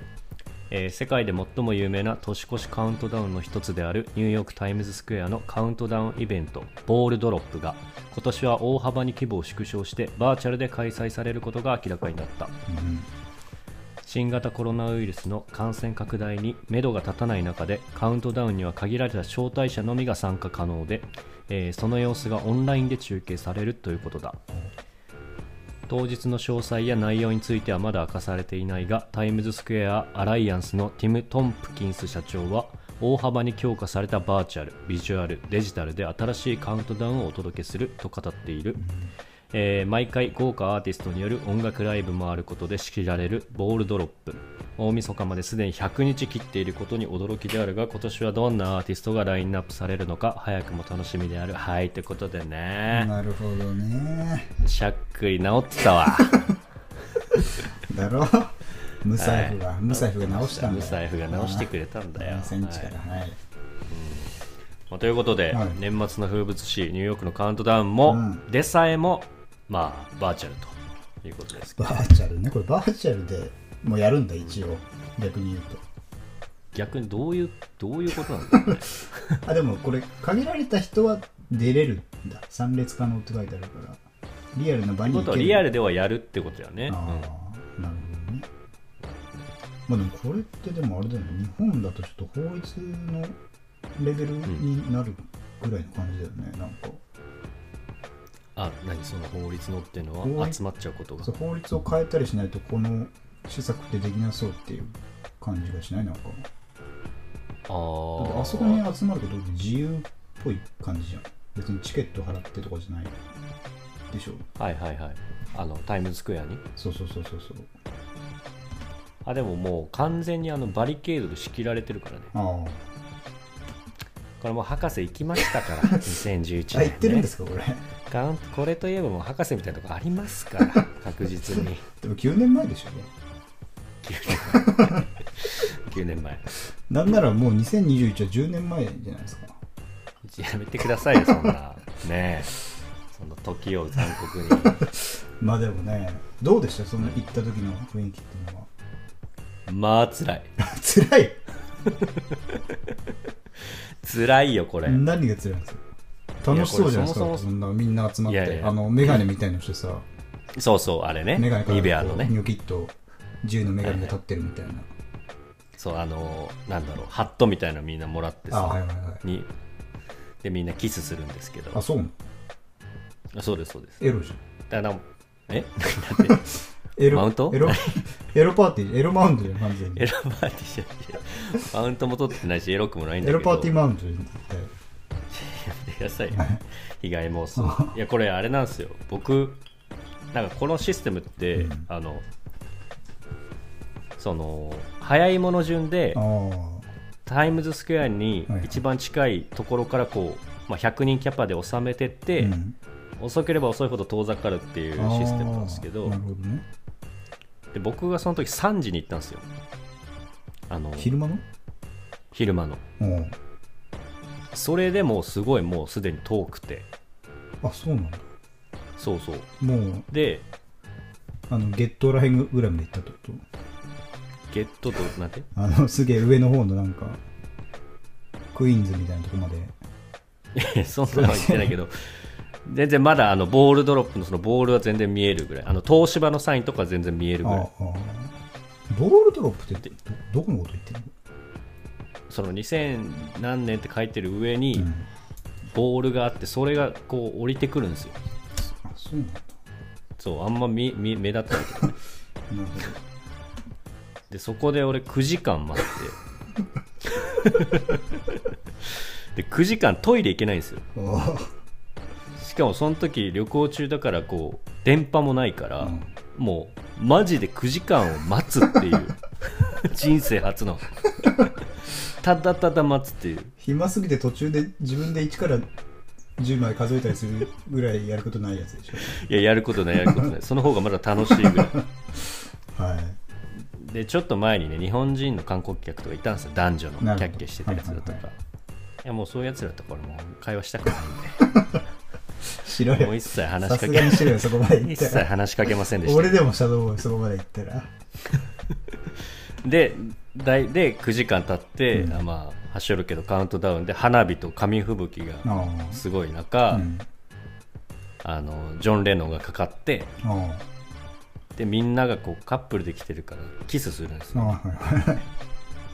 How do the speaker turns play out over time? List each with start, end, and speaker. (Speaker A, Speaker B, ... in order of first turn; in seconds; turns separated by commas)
Speaker A: 0.7-12.6, Speaker B: 12.7-13.1, Speaker A: 14.1-24.4, Speaker A: 25.9-38.9, Speaker B: 38.8-39.1, Speaker A: 39.5-53.1, Speaker B: 52.9-54.5, Speaker A: 54.6-56.5, Speaker B: 57.3-63.4, Speaker A: 59.2-62.9, Speaker A: 63.9-64.3, Speaker A: 64.9-72.0, Speaker B: 65.5-65.8, Speaker B: 68.1-68.4, Speaker B: 71.8-75.8, Speaker A: 76.7-79.4, Speaker B: 79.5-84.0, Speaker B: 84.5-85.7, Speaker A: 85.0-87.3, Speaker B: 86.9-88.5, Speaker A: 89.0-89.5, Speaker B: 89.9-93.4, Speaker B: 94.0-97.0, Speaker A: 98.6-101.3, Speaker B: 100.2-100.6, Speaker B: 101.2-106.5, Speaker A: 107.7-108.8, Speaker B: 108.2-113.2, Speaker B: 114.1-114.5, Speaker A: 114.6-116.7, Speaker B: 116.8-117.7, Speaker A: 119.2-122.3, Speaker B: 122.3-122.9, Speaker A: 124.4-127.3, Speaker B: 126.7-127.8, Speaker A: 128.1-131.8, Speaker B: 132.0-133.1, Speaker A: 134.0-136.5, Speaker B: 134.5-135.1, Speaker B: 136.9-139.6, Speaker A: 140.2-142.6, Speaker A: 143.1-144.8, Speaker B: 144.6-148.7, Speaker A: 147.0-147.3, Speaker A: 149.7-150.5, Speaker B: 150.6-151.4, Speaker A: 151.8-152.8, Speaker A: 153.7-155.0, Speaker B: 154.8-155.8, Speaker B: 156.4-160.1, Speaker A: 156.5-157.5, Speaker A: 158.3-159.2, Speaker A: 160.5-162.3, Speaker B: 161.3-164.9, Speaker A: 163.8-164.2, Speaker A: 165.8-169.5, Speaker B: 168.5-169.2, Speaker A: 170.4-171.8, Speaker B: 171.7-172.2, Speaker A: 173.3-174.0, Speaker B: 174.0-174.4, Speaker A: 174.7-176.5, Speaker B: 177.0-180.1, Speaker A: 177.1-178.0, Speaker A: 179.9-183.8, Speaker B: 183.2-184.7, Speaker A: 185.3-189.6, Speaker B: 186.3-186.6, Speaker B: 187.6-187.9, Speaker A: 190.3-192.2, Speaker B: 191.6-191.9, Speaker A: 194.2-196.2, Speaker B: 196.1-196.9, Speaker A: 197.3-202.6, Speaker B: 198.5-198.8, Speaker B: 202.4-202.8, Speaker A: 203.2-206.2, Speaker B: 205.0-206.7, Speaker A: 207.7-209.5, Speaker A: 210.7-211.2, Speaker B: 211.0-211.4, Speaker A: 212.3-212.8, Speaker B: 213.0-213.4, Speaker A: 214.5-216.9, Speaker B: 217.6-218.3, Speaker A: 219.0-219.5, Speaker B: 219.6-220.1, Speaker A: 220.1-220.5, Speaker B: 221.5-223.4, Speaker A: 224.5-225.5, Speaker B: 225.6-227.2, Speaker B: 228.5-229.8, Speaker A: 230.6-237.7, Speaker B: 231.1-231.8, Speaker B: 237.4-238.4, Speaker B: 238.9-241.1, Speaker A: 242.3-244.9, Speaker B: 244.8-245.1, Speaker A: 245.7-248.2, Speaker B: 248.7-249.6, Speaker A: 250.2-252.0, Speaker B: 252.5-253.0, Speaker A: 254.3-256.2, Speaker A: 257.1-260.9, Speaker B: 260.9-261.5, Speaker A: 262.4-270.9, Speaker B: 265.8-266.1, Speaker A: 272.1-273.5, Speaker B: 273.6-275.7, Speaker B: 276.4-279.2, Speaker A: 279.0-281.8, Speaker B: 280.0-280.3, Speaker B: 281.3-283.2, Speaker A: 283.6-288.4, Speaker B: 287.0-288.2, Speaker A: 289.0-291.6, Speaker B: 291.4-291.8, Speaker B: 292.5-295.3, Speaker A: 292.8-296.4, Speaker B: 296.0-297.9, Speaker A: 299.6-306.9, Speaker B: 301.9-302.2, Speaker B: 305.4-306.0, Speaker B: 306.7-307.1, Speaker A: 308.2-310.1, Speaker B: 310.2-310.6, Speaker A: 311.6-314.6, Speaker B: 314.3-315.3